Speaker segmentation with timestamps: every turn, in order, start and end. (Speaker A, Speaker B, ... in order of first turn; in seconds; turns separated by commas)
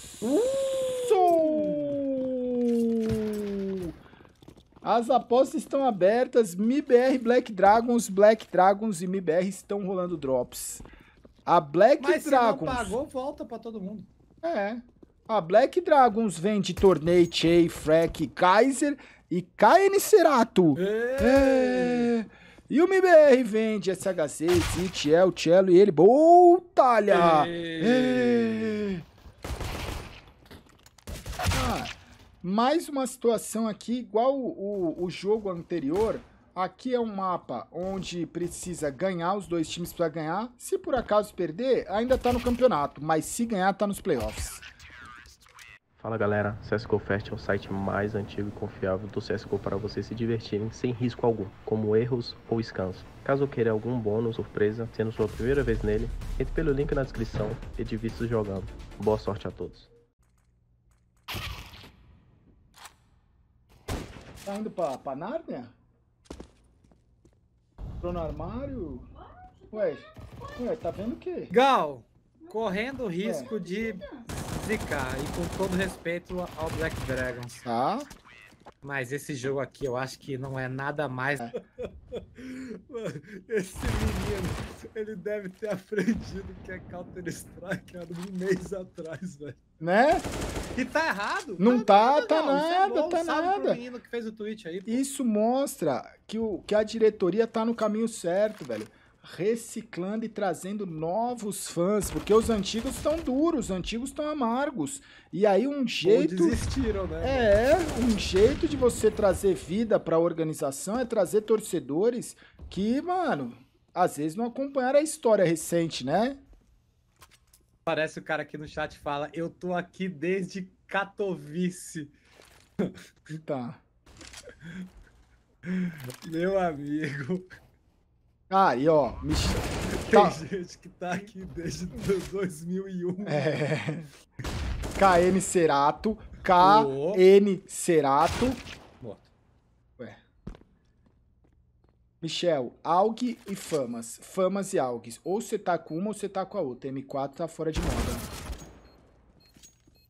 Speaker A: 0.2-2.0, Speaker B: 1.0-3.9, Speaker B: 4.8-10.8, Speaker B: 11.4-13.0, Speaker A: 12.0-14.1, Speaker B: 14.4-29.0, Speaker A: 20.8-22.1, Speaker A: 27.1-28.9, Speaker B: 31.5-44.6, Speaker C: 46.0-59.9, Speaker B: 64.4-65.7, Speaker B: 68.0-69.1, Speaker B: 69.7-70.0, Speaker B: 70.5-71.5, Speaker A: 71.5-77.7, Speaker B: 73.2-73.5, Speaker B: 77.6-78.1, Speaker A: 78.8-89.6, Speaker B: 89.8-90.3, Speaker A: 90.7-95.0, Speaker B: 91.6-93.8, Speaker B: 94.9-106.6, Speaker A: 106.0-107.5, Speaker B: 107.2-116.4, Speaker A: 117.8-122.1, Speaker B: 123.3-123.8, Speaker A: 125.7-127.5, Speaker B: 128.5-130.4, Speaker A: 129.8-133.6, Speaker B: 133.2-134.1, Speaker B: 135.0-138.6, Speaker A: 136.6-137.2, Speaker A: 139.0-139.3, Speaker B: 142.2-148.2